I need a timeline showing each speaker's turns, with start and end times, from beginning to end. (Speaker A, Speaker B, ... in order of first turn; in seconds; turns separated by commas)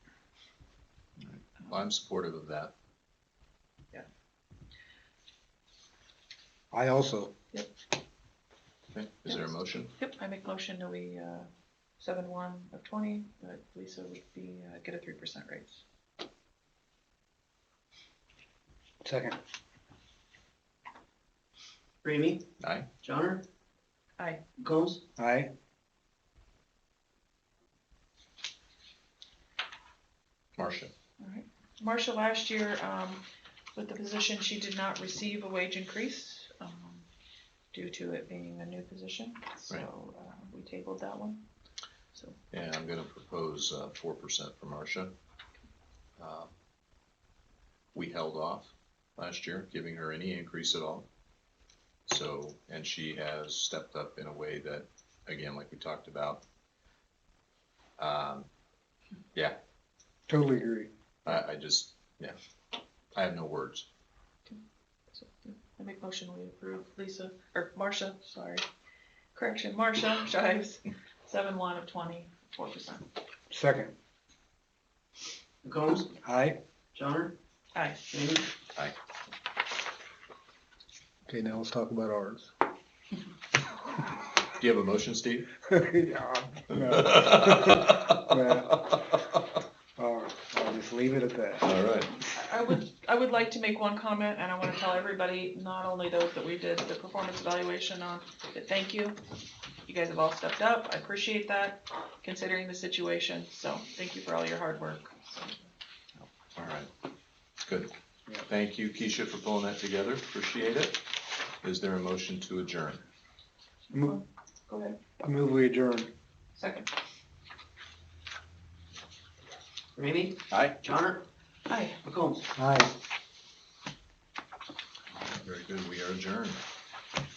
Speaker A: 1.2-2.7, Speaker B: 6.7-7.3, Speaker A: 8.9-9.9, Speaker C: 9.9-11.5, Speaker C: 12.0-15.8, Speaker B: 19.0-19.4, Speaker D: 22.0-22.4, Speaker A: 22.6-22.9, Speaker D: 23.0-23.4, Speaker D: 24.6-25.0, Speaker B: 25.2-25.5, Speaker A: 30.6-30.9, Speaker C: 31.2-33.2, Speaker C: 33.7-37.1, Speaker C: 37.7-41.5, Speaker A: 42.5-45.1, Speaker A: 46.2-46.5, Speaker A: 47.9-51.1, Speaker A: 52.0-56.4, Speaker A: 58.0-58.5, Speaker B: 60.3-60.9, Speaker A: 61.2-62.4, Speaker A: 63.1-63.9, Speaker C: 65.1-68.7, Speaker C: 69.3-73.1, Speaker B: 73.5-73.9, Speaker D: 75.6-76.1, Speaker B: 76.2-76.6, Speaker D: 76.9-77.3, Speaker C: 77.7-78.1, Speaker D: 78.1-78.5, Speaker B: 81.3-82.5, Speaker A: 84.6-85.5, Speaker B: 85.7-88.9, Speaker A: 86.7-89.0, Speaker B: 90.0-91.7, Speaker A: 91.6-92.2, Speaker C: 92.3-99.2, Speaker C: 99.8-105.6, Speaker A: 106.2-106.9, Speaker A: 107.6-107.9, Speaker A: 108.5-111.0, Speaker A: 111.6-113.0, Speaker B: 113.9-114.2, Speaker C: 114.0-115.0, Speaker B: 115.2-116.1, Speaker C: 116.5-116.9, Speaker D: 120.0-121.2, Speaker A: 120.5-120.8, Speaker C: 121.7-122.0, Speaker D: 122.0-122.5, Speaker B: 122.5-122.9, Speaker A: 125.1-126.6